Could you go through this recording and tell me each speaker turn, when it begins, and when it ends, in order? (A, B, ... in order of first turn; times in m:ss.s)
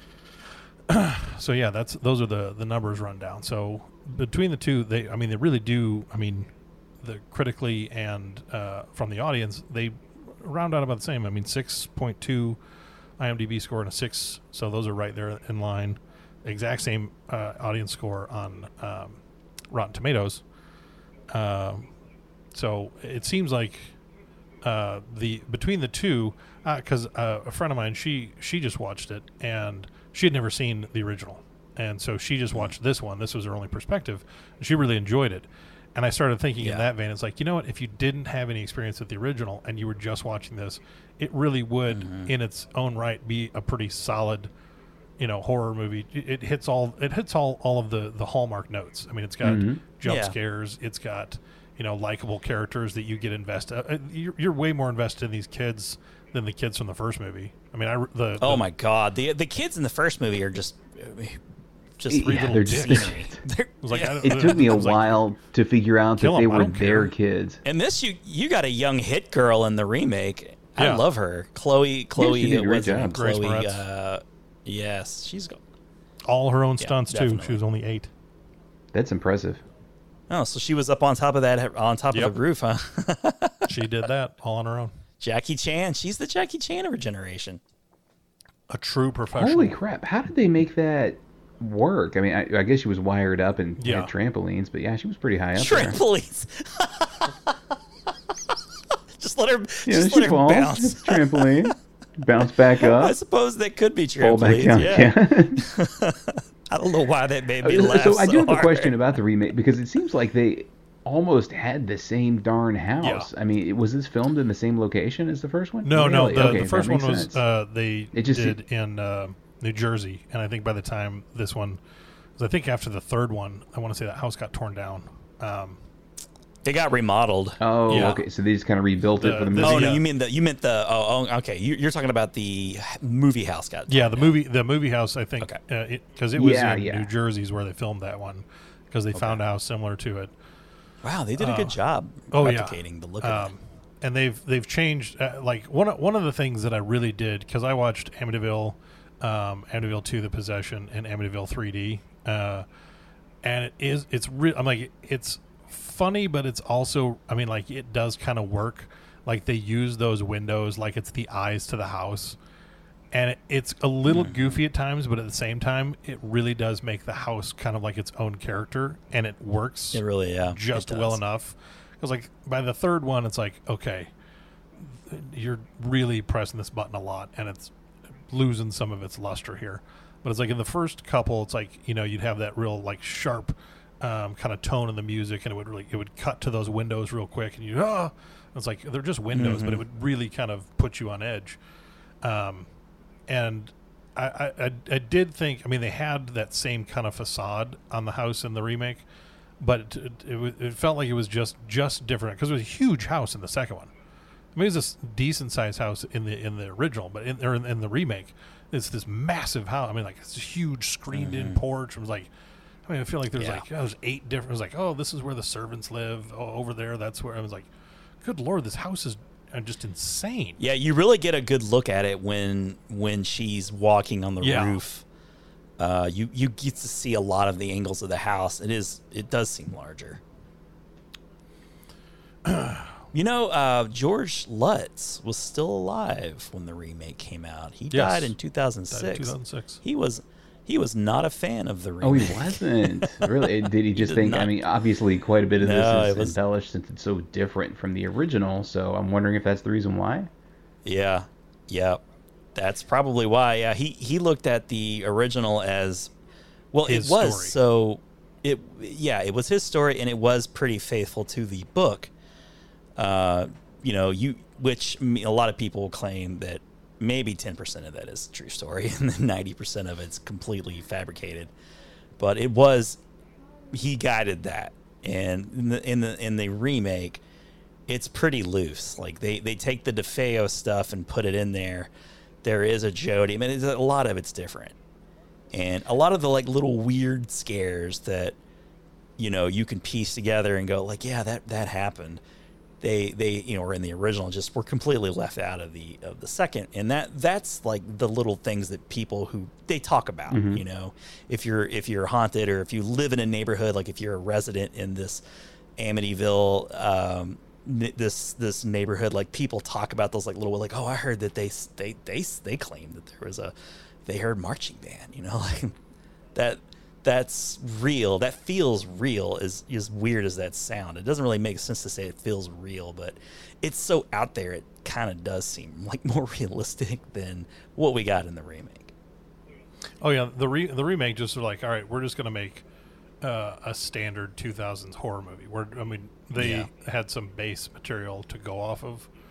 0:00.9-0:06.5 A
0:07.0-0:12.6 A
0:13.2-0:19.2 A
0:19.7-0:20.4 A
0:21.3-0:21.9 A
0:22.5-0:23.9 A
0:24.6-0:44.5 A
0:36.6-0:36.8 B
0:41.9-0:42.3 B
0:45.2-0:58.6 A
0:49.4-0:49.8 C
0:50.0-0:50.3 B
0:58.4-1:01.4 B
1:02.0-1:04.7 B
1:02.1-1:03.4 C
1:02.2-1:03.2 A
1:03.8-1:05.2 A
1:04.2-1:07.6 C
1:06.2-1:07.1 A
1:07.6-1:15.6 B
1:10.8-1:11.0 A
1:12.2-1:13.1 C
1:13.1-1:13.8 A
1:16.2-1:18.1 A
1:16.8-1:17.6 B
1:18.9-1:19.6 C
1:20.3-1:23.7 B
1:23.6-1:24.9 A
1:25.2-1:27.6 B
1:28.7-1:29.8 A
1:29.3-1:36.0 C
1:33.8-1:34.1 A
1:35.5-1:37.5 B
1:39.2-1:41.7 B
1:39.8-1:43.2 C
1:42.8-1:48.9 B
1:44.2-1:45.6 C
1:47.6-1:57.4 C
1:53.0-1:53.3 A
1:55.8-2:01.8 A
1:58.1-1:58.6 C
2:02.4-2:05.8 A
2:06.6-2:08.2 B
2:07.6-2:10.0 C
2:07.9-2:08.2 A
2:09.2-2:10.0 A
2:09.6-2:14.3 B
2:13.9-2:20.3 A
2:16.3-2:17.1 C
2:19.1-2:19.4 B
2:21.0-2:23.5 B
2:21.4-2:21.8 A
2:22.3-2:32.6 A
2:33.4-2:42.4 A
2:43.1-2:54.1 A
2:44.0-2:44.6 B
2:49.9-2:51.2 B
2:54.8-2:57.7 A
2:58.3-3:11.6 A
3:09.3-3:09.8 B
3:12.2-3:12.7 A
3:13.3-3:19.0 A
3:19.6-3:23.9 A
3:24.5-3:32.3 A
3:31.1-3:31.6 B
3:32.9-3:37.7 A
3:33.3-3:33.6 B
3:38.2-3:40.6 A
3:40.6-3:45.0 B
3:44.4-3:44.8 A
3:45.8-3:50.2 B
3:52.4-3:52.9 A
3:53.1-4:04.5 B
3:57.9-3:58.4 A
3:58.9-3:59.8 A
4:02.0-4:10.3 C
4:05.6-4:06.4 B
4:10.8-4:12.0 B
4:12.5-4:16.1 B
4:16.7-4:22.1 B
4:16.8-4:17.6 A
4:23.0-4:31.5 B
4:32.2-4:33.0 B
4:33.7-4:37.2 B
4:37.9-4:41.9 B
4:42.4-4:44.8 B
4:45.5-4:48.4 B
4:49.2-4:52.2 B
4:52.8-5:05.2 B
5:00.3-5:00.6 C
5:05.8-5:13.5 B
5:14.0-5:15.7 B
5:16.3-5:28.9 B
5:30.0-5:32.6 A
5:33.2-5:39.1 A
5:36.4-5:36.7 B